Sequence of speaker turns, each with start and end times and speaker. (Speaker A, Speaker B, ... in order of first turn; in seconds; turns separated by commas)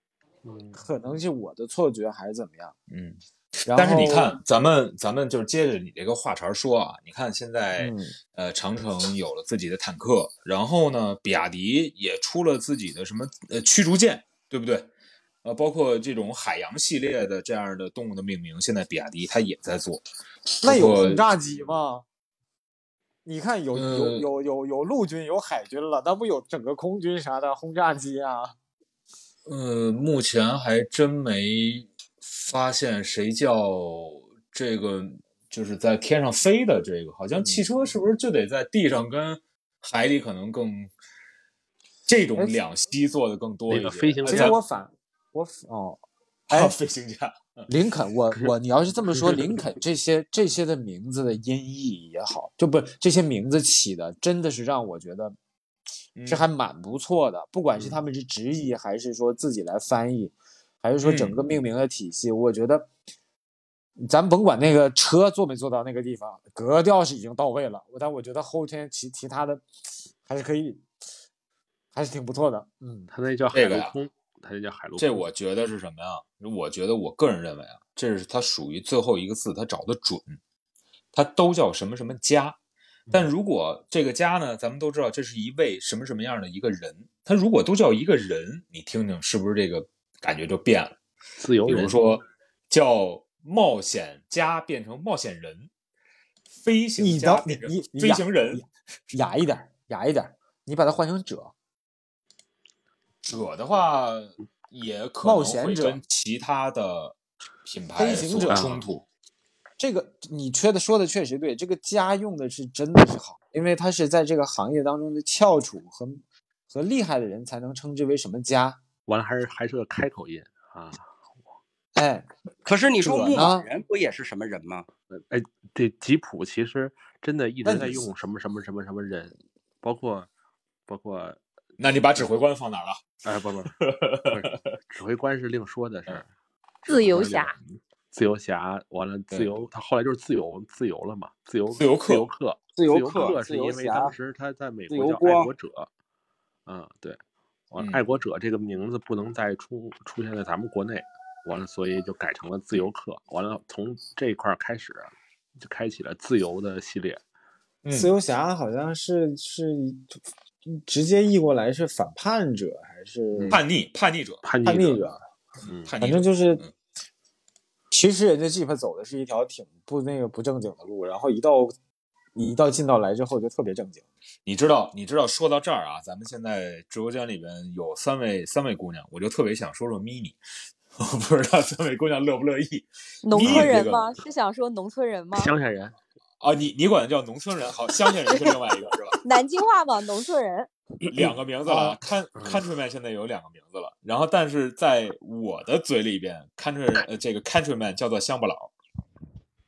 Speaker A: 0.4-0.8, Speaker B: 0.7-2.7, Speaker C: 2.9-14.9, Speaker B: 3.7-4.4, Speaker B: 7.8-8.1, Speaker C: 15.4-20.0, Speaker C: 20.6-21.2, Speaker B: 20.6-22.1, Speaker B: 23.2-28.6, Speaker C: 23.7-24.2, Speaker C: 29.4-40.9, Speaker C: 42.0-44.6, Speaker A: 43.7-44.6, Speaker B: 44.3-46.7, Speaker C: 46.5-47.7, Speaker B: 47.7-55.4, Speaker C: 56.2-56.5, Speaker B: 56.3-62.9, Speaker A: 57.8-58.0, Speaker C: 61.0-61.4, Speaker B: 64.0-69.6, Speaker B: 70.3-70.8, Speaker B: 71.9-73.1, Speaker A: 73.1-75.3, Speaker C: 73.5-74.0, Speaker C: 75.0-80.4, Speaker C: 81.1-82.6, Speaker C: 83.1-91.0, Speaker A: 91.4-92.1, Speaker C: 91.6-95.7, Speaker C: 96.6-98.6, Speaker B: 97.0-101.5, Speaker C: 103.2-109.0, Speaker B: 105.2-106.0, Speaker B: 108.0-108.8, Speaker A: 108.5-108.8, Speaker B: 109.8-118.8, Speaker A: 119.0-121.1, Speaker B: 122.0-122.3, Speaker D: 122.6-124.9, Speaker B: 123.0-123.7, Speaker A: 125.1-130.3, Speaker B: 127.6-128.0, Speaker A: 130.9-131.4, Speaker C: 131.8-133.1, Speaker A: 133.2-133.7, Speaker C: 133.8-134.6, Speaker A: 134.3-136.3, Speaker E: 136.8-137.5, Speaker A: 136.9-145.9, Speaker C: 141.7-142.3, Speaker D: 142.8-144.1, Speaker D: 144.9-145.5, Speaker A: 146.7-147.2, Speaker A: 147.7-157.2, Speaker C: 147.8-148.0, Speaker C: 157.8-158.1, Speaker B: 157.9-163.6, Speaker A: 163.3-163.6, Speaker C: 163.5-164.4, Speaker A: 164.4-165.1, Speaker B: 164.6-165.2, Speaker A: 165.7-165.9, Speaker C: 165.9-166.7, Speaker B: 166.0-166.6, Speaker B: 167.9-171.7, Speaker B: 172.3-174.0, Speaker C: 174.4-180.4, Speaker C: 181.0-184.1, Speaker E: 183.2-185.5, Speaker A: 185.3-185.9, Speaker C: 186.4-189.2, Speaker E: 188.3-188.6, Speaker E: 189.2-190.7, Speaker C: 191.1-198.7